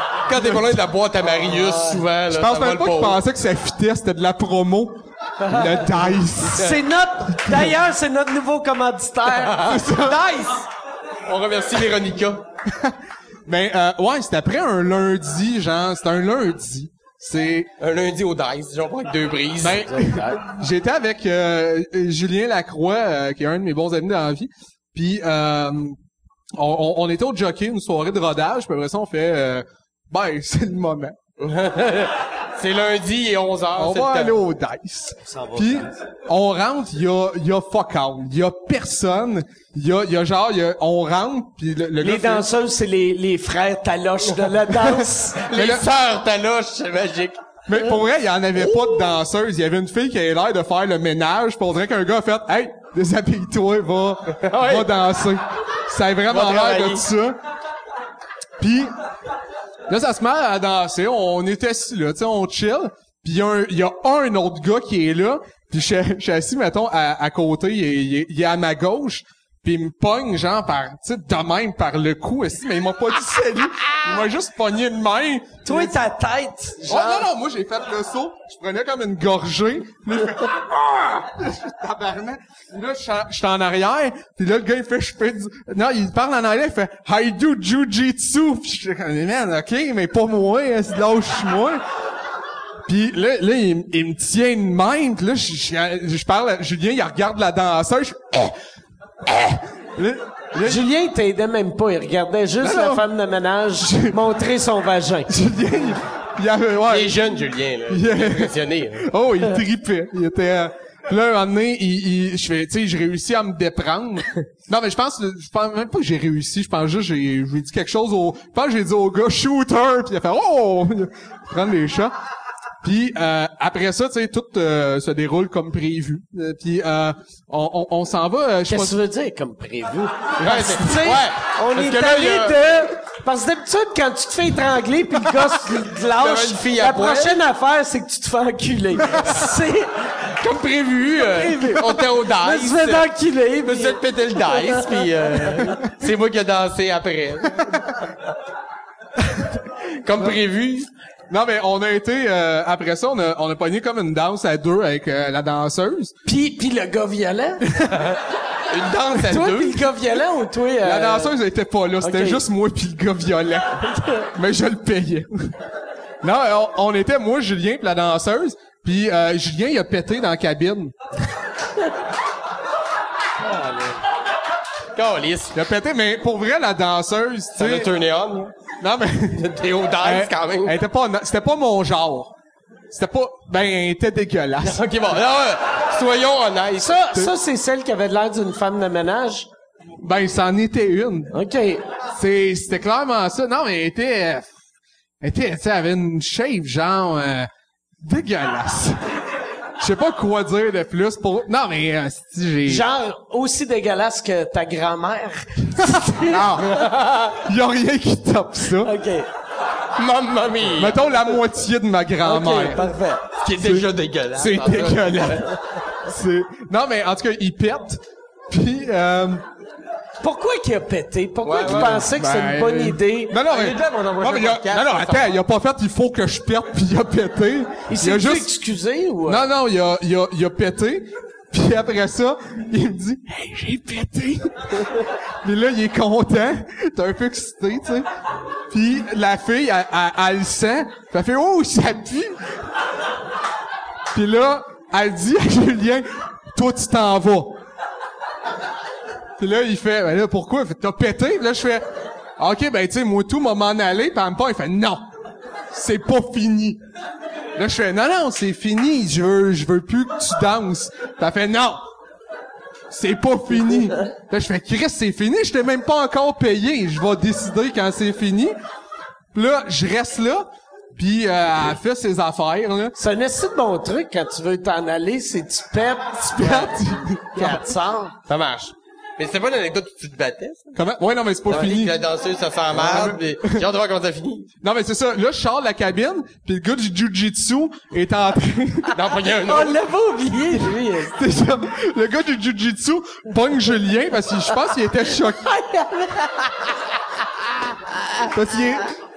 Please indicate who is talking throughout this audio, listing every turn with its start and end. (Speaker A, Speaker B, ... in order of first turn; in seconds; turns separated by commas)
Speaker A: 0.3-3.2, Speaker B: 1.4-2.0, Speaker C: 2.3-6.8, Speaker B: 5.4-5.8, Speaker B: 6.4-9.6, Speaker A: 9.3-10.7, Speaker C: 9.6-10.2, Speaker A: 11.3-12.4, Speaker C: 12.7-17.7, Speaker A: 17.8-19.9, Speaker C: 19.6-26.0, Speaker B: 19.7-20.4, Speaker C: 26.6-31.2, Speaker A: 31.4-34.4, Speaker C: 33.8-42.5, Speaker B: 35.2-35.9, Speaker B: 42.0-45.4, Speaker A: 45.4-47.4, Speaker C: 45.5-45.9, Speaker C: 47.7-57.4, Speaker A: 54.3-54.9, Speaker A: 56.3-57.0, Speaker C: 58.6-58.9, Speaker C: 59.9-76.0, Speaker B: 75.7-77.3, Speaker C: 76.9-91.8, Speaker C: 92.9-98.6, Speaker C: 99.3-100.8, Speaker B: 100.6-105.3, Speaker C: 102.6-103.1, Speaker C: 103.8-104.2, Speaker C: 105.3-107.2, Speaker A: 106.9-109.1, Speaker C: 107.9-122.1, Speaker C: 122.8-129.0, Speaker B: 128.7-140.2, Speaker A: 130.4-132.6, Speaker A: 136.2-137.4, Speaker A: 140.4-143.1, Speaker B: 141.2-145.8, Speaker A: 143.6-148.1, Speaker A: 150.0-150.9, Speaker C: 151.3-156.1, Speaker B: 156.2-157.7, Speaker A: 158.7-160.0, Speaker B: 159.3-161.4, Speaker C: 160.8-165.5, Speaker B: 162.0-162.4, Speaker C: 166.2-170.9, Speaker B: 173.4-174.0, Speaker A: 174.9-175.6, Speaker C: 175.5-177.9, Speaker A: 177.6-178.5, Speaker C: 178.8-182.3, Speaker A: 179.3-180.8, Speaker C: 182.9-184.8, Speaker A: 184.6-187.1, Speaker B: 186.8-189.5, Speaker C: 190.0-191.3, Speaker B: 191.3-191.8, Speaker C: 192.1-194.5, Speaker C: 195.2-199.0, Speaker C: 199.8-202.9, Speaker B: 202.7-206.9, Speaker C: 205.8-208.9, Speaker A: 206.8-207.2, Speaker B: 208.8-209.3, Speaker A: 210.0-211.2, Speaker C: 210.7-212.8, Speaker B: 212.3-213.1, Speaker A: 212.5-215.5, Speaker C: 213.6-215.5, Speaker C: 216.0-219.4, Speaker B: 220.2-223.4, Speaker A: 221.4-222.1, Speaker C: 221.6-228.5, Speaker A: 223.4-225.3, Speaker B: 227.9-229.5, Speaker C: 229.3-238.1, Speaker C: 238.7-242.6, Speaker C: 244.1-247.6, Speaker C: 249.4-251.8, Speaker C: 252.4-255.1, Speaker C: 255.7-256.8, Speaker C: 257.6-261.9, Speaker C: 262.9-268.6, Speaker C: 269.3-272.9, Speaker B: 273.0-278.1, Speaker C: 276.4-277.7, Speaker A: 278.3-280.8, Speaker C: 280.8-282.0, Speaker A: 281.5-284.5, Speaker C: 282.7-283.6, Speaker C: 284.6-289.0, Speaker A: 288.9-289.8, Speaker B: 289.4-291.2, Speaker C: 291.0-295.5, Speaker B: 295.4-296.6, Speaker C: 298.3-298.9